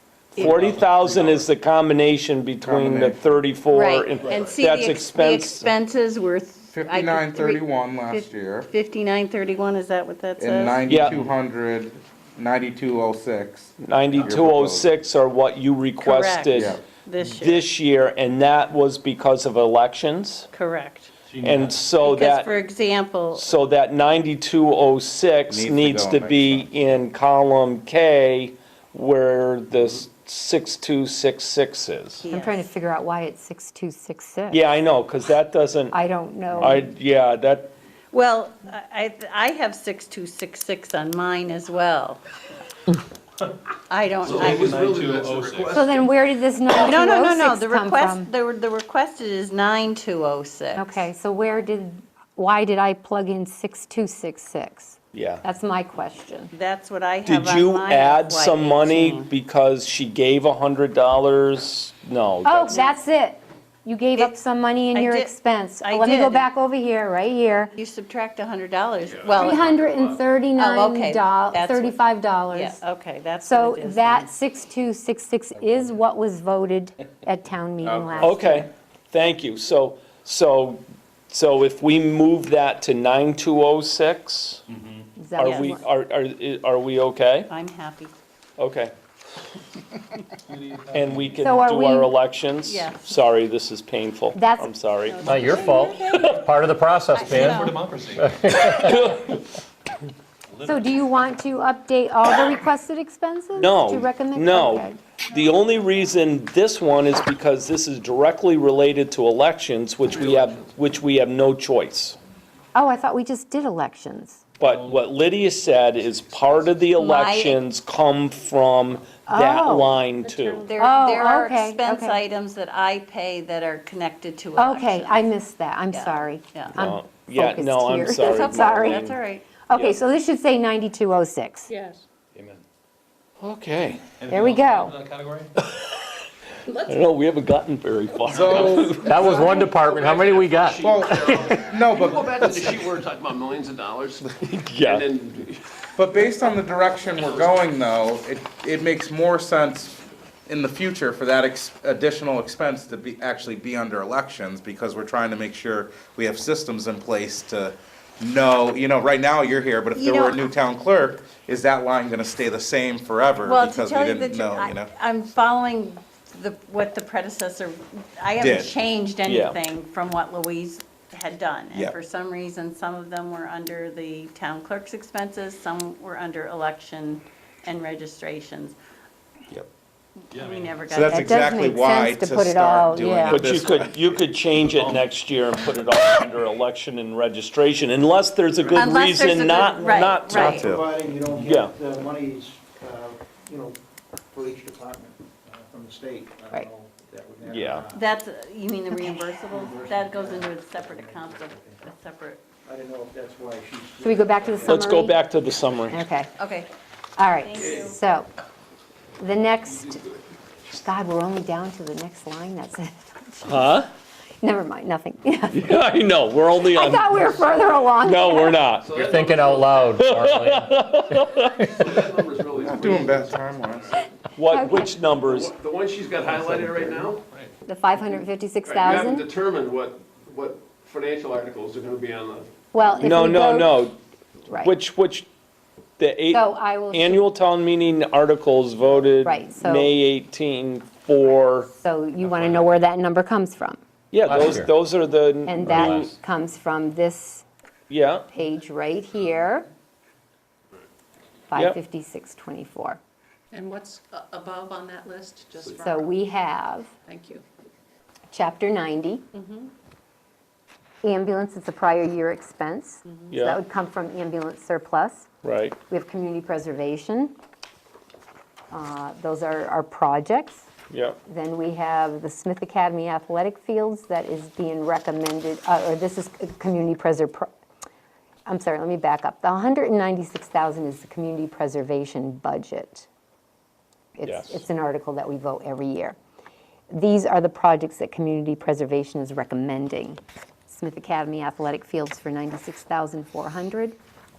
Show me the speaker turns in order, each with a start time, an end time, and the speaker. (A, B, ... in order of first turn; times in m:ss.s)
0:00.4-0:01.5 A
0:00.4-0:05.7 B
0:02.6-0:03.2 C
0:03.7-0:10.8 D
0:04.3-0:04.6 A
0:06.7-0:08.7 C
0:10.4-0:14.9 C
0:10.8-0:11.3 B
0:13.8-0:16.8 B
0:16.0-0:17.7 D
0:16.5-0:16.8 C
0:17.4-0:20.5 B
0:20.5-0:21.1 D
0:21.3-0:21.6 E
0:21.4-0:22.5 B
0:22.0-0:23.5 D
0:23.3-0:32.3 B
0:25.5-0:26.7 C
0:32.2-0:32.7 D
0:32.3-0:34.6 F
0:34.5-0:36.0 B
0:35.9-0:36.9 F
0:36.5-0:37.7 B
0:38.1-0:42.2 D
0:43.9-0:44.8 D
0:44.2-0:46.1 A
0:44.3-0:45.7 E
0:45.7-0:48.3 F
0:46.8-0:51.1 D
0:50.7-0:56.5 F
0:55.1-0:55.4 B
0:56.5-0:59.3 D
0:57.2-1:02.8 B
1:02.4-1:07.7 F
1:04.9-1:05.3 D
1:05.8-1:06.5 D
1:07.8-1:09.7 D
1:09.0-1:10.2 A
1:09.3-1:12.8 F
1:10.6-1:12.0 D
1:12.5-1:14.3 D
1:13.4-1:18.7 F
1:17.8-1:18.3 C
1:18.2-1:24.6 B
1:25.2-1:25.8 F
1:25.4-1:27.5 B
1:25.4-1:25.7 D
1:27.5-1:28.1 D
1:28.6-1:28.9 B
1:30.5-1:31.0 E
1:30.9-1:35.3 B
1:31.4-1:32.1 F
1:32.7-1:33.1 D
1:34.3-1:34.7 F
1:35.1-1:36.4 D
1:35.2-1:39.0 G
1:36.0-1:36.5 B
1:37.1-1:37.8 D
1:37.5-1:38.4 E
1:38.4-1:39.5 B
1:40.5-1:41.0 E
1:40.6-1:45.0 F
1:43.6-1:52.2 B
1:50.1-1:50.7 A
1:52.8-1:54.4 F
1:54.6-2:00.7 B
1:54.8-1:55.2 E
1:56.9-1:57.6 D
1:59.3-2:00.0 F
2:00.2-2:01.0 H
2:00.7-2:05.3 D
2:00.8-2:02.2 F
2:04.6-2:09.1 F
2:05.9-2:06.8 D
2:06.7-2:09.2 B
2:08.2-2:09.6 D
2:09.7-2:11.7 F
2:09.7-2:10.0 B
2:11.7-2:12.0 H
2:13.4-2:14.1 B
2:14.2-2:15.5 E
2:14.3-2:15.0 F
2:15.6-2:16.1 B
2:16.7-2:19.1 B
2:18.3-2:19.7 H
2:18.3-2:19.1 C
2:19.0-2:21.5 G
2:19.1-2:25.6 A
2:20.8-2:22.5 C
2:24.4-2:25.1 B
2:26.0-2:44.9 C
2:40.0-2:40.4 D
2:43.4-2:58.8 D
2:48.4-2:48.7 C
2:49.3-2:49.6 B
3:00.3-3:00.8 E
3:00.3-3:01.3 D
3:00.9-3:04.2 C
3:01.0-3:03.5 F
3:03.2-3:10.3 B
3:08.7-3:10.7 D
3:09.7-3:13.8 I
3:10.3-3:10.8 C
3:11.4-3:11.7 B
3:14.3-3:18.1 I
3:17.5-3:17.9 B
3:17.9-3:22.4 D
3:18.9-3:19.2 F
3:19.5-3:21.8 I
3:22.6-3:24.8 I
3:24.0-3:25.2 F
3:24.7-3:26.0 B
3:25.9-3:26.3 F
3:26.4-3:26.7 D
3:27.2-3:28.3 F
3:27.4-3:28.0 D
3:29.2-3:30.1 F
3:29.7-3:30.2 A
3:30.7-3:33.7 F
3:33.4-3:33.9 B
3:34.4-3:35.8 F
3:35.5-3:37.4 B
3:36.7-3:38.7 F
3:38.0-3:39.0 B
3:38.8-3:40.1 A
3:38.9-3:41.2 G
3:39.9-3:41.7 B
3:41.6-3:43.7 A
3:42.6-3:43.9 C
3:44.4-3:45.5 B
3:44.5-3:45.0 F
3:45.1-3:47.2 A
3:47.6-3:49.3 F
3:48.6-3:52.5 A
3:52.7-3:53.9 F
3:53.1-3:54.0 B
3:54.5-3:54.7 F
3:54.6-3:55.3 B
3:56.0-4:01.7 B
3:56.3-3:57.2 F
3:59.2-3:59.9 F
4:01.8-4:03.8 F
4:04.1-4:06.1 B
4:04.3-4:04.7 G
4:05.5-4:07.5 F
4:05.7-4:06.1 G
4:07.9-4:08.3 B
4:08.3-4:09.7 F
4:11.5-4:13.0 F
4:11.5-4:11.8 B
4:13.5-4:16.1 H
4:15.8-4:16.9 F
4:17.1-4:17.4 H
4:18.3-4:19.3 F
4:19.4-4:19.7 H
4:21.0-4:25.3 F
4:23.3-4:23.6 B
4:25.4-4:25.8 B
4:25.9-4:27.3 F
4:28.7-4:30.7 F
4:30.9-4:31.2 B
4:31.3-4:37.5 F
4:38.5-4:43.1 F
4:44.2-4:46.2 F
4:44.2-4:44.6 B
4:46.9-4:54.0 F